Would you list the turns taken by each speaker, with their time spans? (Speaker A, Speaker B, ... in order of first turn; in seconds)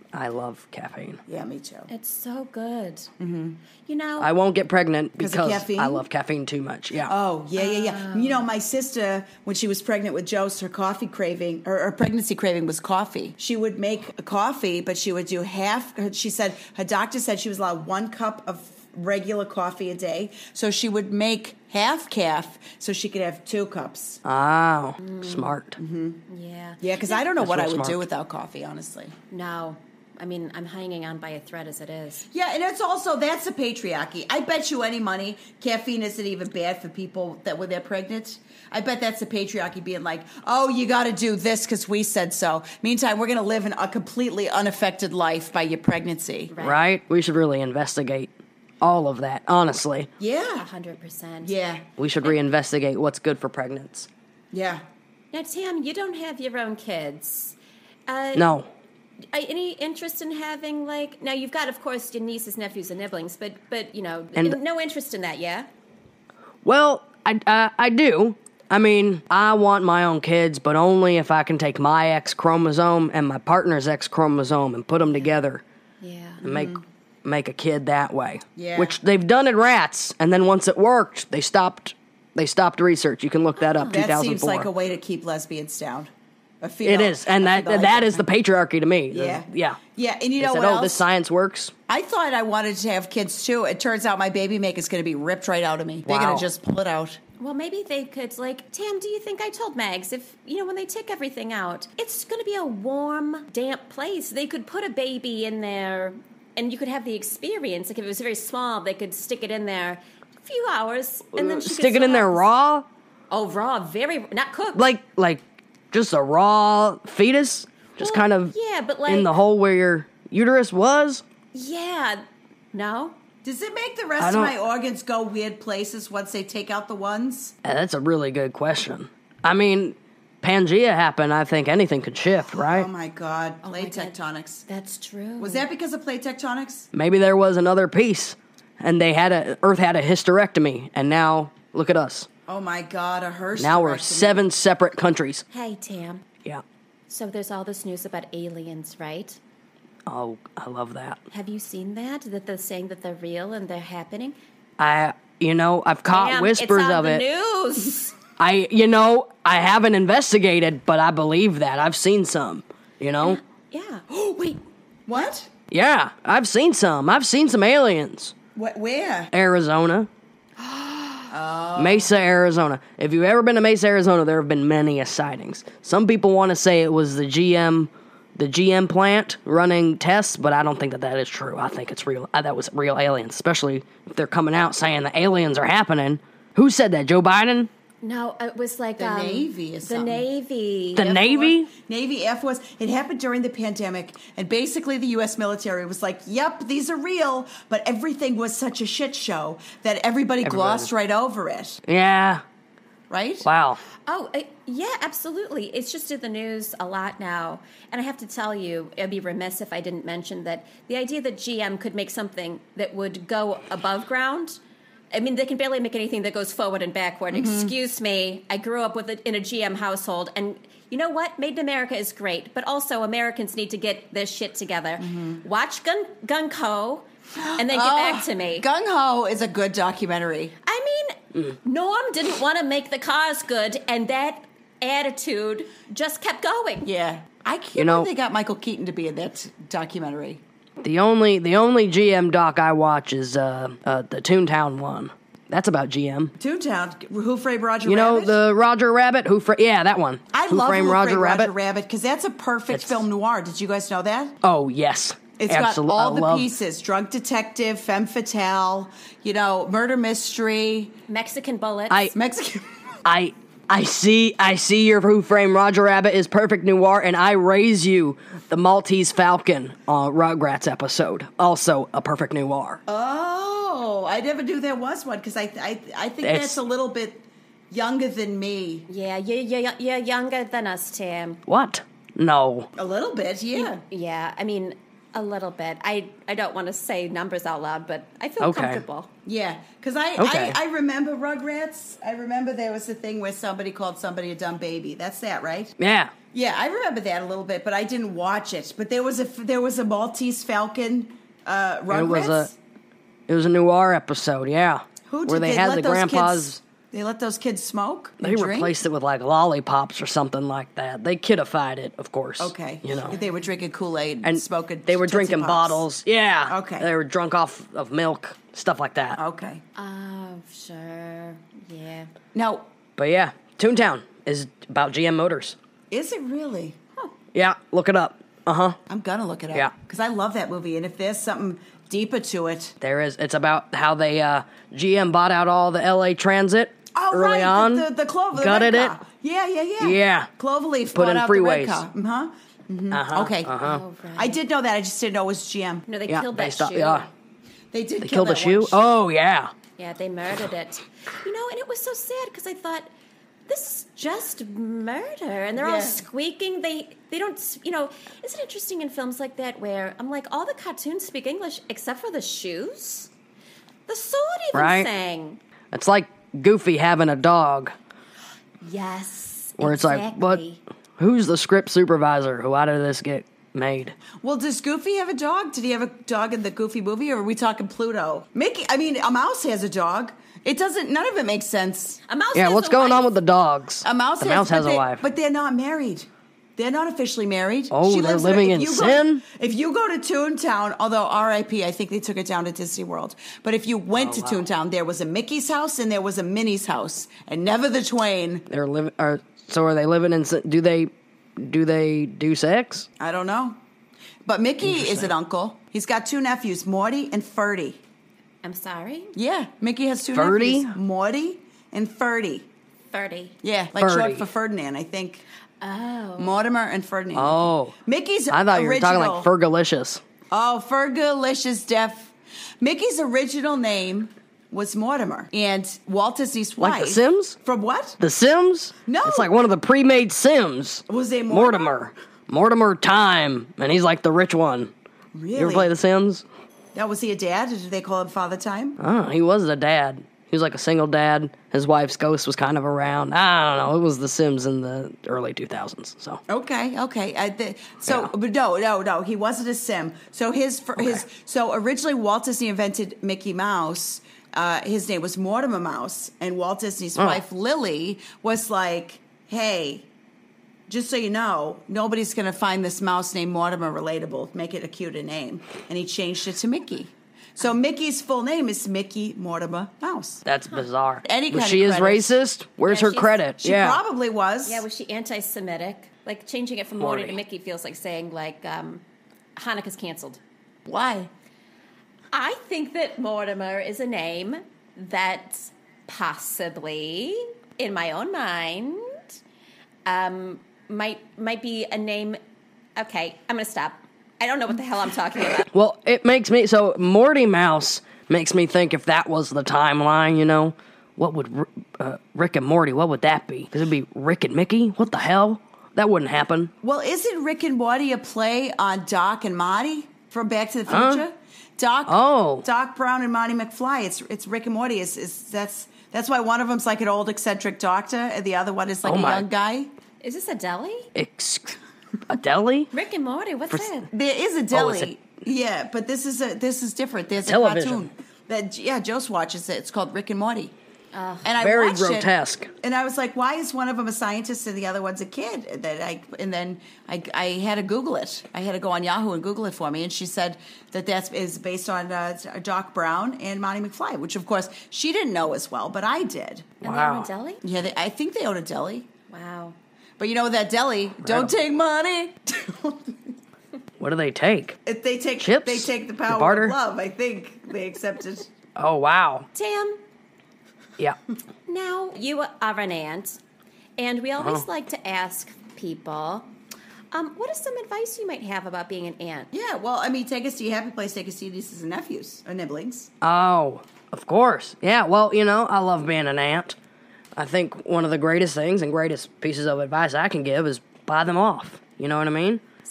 Speaker A: 0.1-1.2, 4.2-7.1, 24.2-25.8, 27.4-28.0, 46.6-48.3, 48.8-50.1, 52.0-54.1, 58.3-58.7, 66.6-75.6, 76.4-84.7, 86.8-89.8, 90.4-91.7, 96.0-96.4, 111.3-112.8, 114.7-118.5, 119.1-121.2, 124.2-124.5, 127.6-132.9, 136.9-142.3, 143.6-145.4, 150.1-151.2, 154.8-157.2, 158.4-163.4, 165.7-168.3, 169.3-170.1, 171.8-187.7, 190.9-191.7, 200.4-200.9, 201.9-202.4, 203.4-203.8, 237.8-238.1, 240.8-246.3, 247.8-251.5, 252.7-253.0, 254.4-256.5, 263.0-272.8, 276.2-276.6, 281.5-282.7, 288.4-288.8, 290.2-290.6, 295.8-296.1, 301.9-302.5, 303.3-306.6, 308.2-313.1, 314.2-319.2, 323.0-325.6, 327.3-328.8, 332.8-339.0, 339.8-340.3, 340.9-341.8, 342.9-343.8, 346.1-347.1, 348.0-349.5, 364.5-364.9, 365.7-367.7, 369.6-370.4, 371.0-373.9, 382.3-385.0, 387.7-389.2, 393.9-394.4, 398.5-402.9, 404.6-405.1, 410.1-410.7, 413.8-414.2, 417.1-417.7, 418.3-420.0, 426.6-427.4, 428.0-434.7, 435.4-436.2, 438.8-446.2, 450.8-451.0, 457.0-457.2, 470.2-473.8, 476.8-477.2, 495.5-506.5, 510.7-511.0, 511.9-512.4, 518.8-519.2, 520.9-522.7, 524.5-524.9, 527.2-527.9, 531.4-532.5, 546.6-547.1, 551.0-551.3, 553.8-554.6, 555.2-556.5, 558.5-559.3, 573.0-576.5, 577.1-582.4
Speaker B: 1.3-1.9, 3.2-3.6, 5.2-6.0, 7.0-24.2, 25.8-26.2, 26.8-29.1, 32.3-46.5, 50.2-50.7, 51.4-51.9, 54.5-54.8, 76.4-76.8, 78.5-79.0, 83.9-86.1, 86.6-88.2, 89.1-91.0, 91.9-97.2, 123.4-127.5, 132.5-134.6, 135.4-136.9, 142.5-144.5, 164.1-165.5, 168.5-169.3, 171.3-172.1, 189.0-190.2, 191.0-201.8, 203.1-203.5, 217.3-217.7, 225.0-225.4, 227.3-230.5, 236.8-240.4, 246.4-248.4, 250.3-254.4, 255.4-260.9, 262.1-262.8, 272.9-278.9, 282.8-283.8, 289.2-295.7, 296.3-302.5, 305.1-308.7, 312.4-315.8, 316.5-316.9, 319.1-319.6, 322.3-322.7, 325.9-326.8, 328.9-332.8, 336.9-343.6, 344.1-345.9, 347.7-348.9, 355.6-356.0, 374.2-382.0, 383.8-398.4, 403.0-403.6, 404.2-407.8, 409.1-412.5, 413.4-415.2, 416.2-419.3, 420.3-428.0, 428.9-429.3, 430.9-431.7, 435.1-435.7, 436.7-438.8, 446.3-459.9, 460.7-470.2, 471.0-472.1, 473.4-474.6, 480.6-481.1, 506.6-519.7, 523.9-530.5, 531.2-546.6, 547.4-548.9, 550.0-553.1, 554.6-558.3, 569.3-572.9
Speaker C: 1.9-3.1, 3.9-4.3, 7.6-8.5, 25.0-25.5, 26.3-27.2, 29.3-32.3, 46.5-46.8, 50.6-51.5, 55.3-58.5, 59.3-65.7, 76.0-76.4, 83.6-84.0, 97.4-112.5, 113.3-114.9, 118.0-119.3, 121.5-123.2, 133.6-134.1, 134.7-135.7, 145.5-146.2, 147.1-149.4, 151.3-154.4, 156.1-158.1, 163.2-164.1, 170.7-171.2, 188.0-191.2, 204.1-214.6, 215.1-228.7, 230.6-236.9, 261.1-262.1, 278.9-281.4, 283.5-289.1, 319.8-322.1, 343.6-344.4, 345.9-347.1, 349.8-352.9, 353.5-363.1, 363.9-365.4, 368.6-370.6, 382.1-383.1, 408.4-409.1, 412.9-413.4, 415.6-416.4, 472.6-473.2, 474.4-478.8, 479.4-480.2, 482.1-489.0, 489.9-492.2, 492.8-495.5, 520.0-520.9, 522.7-523.9, 530.9-531.3, 546.6-547.4, 549.1-549.5, 559.3-559.8, 561.5-563.2, 563.8-566.3, 566.9-569.3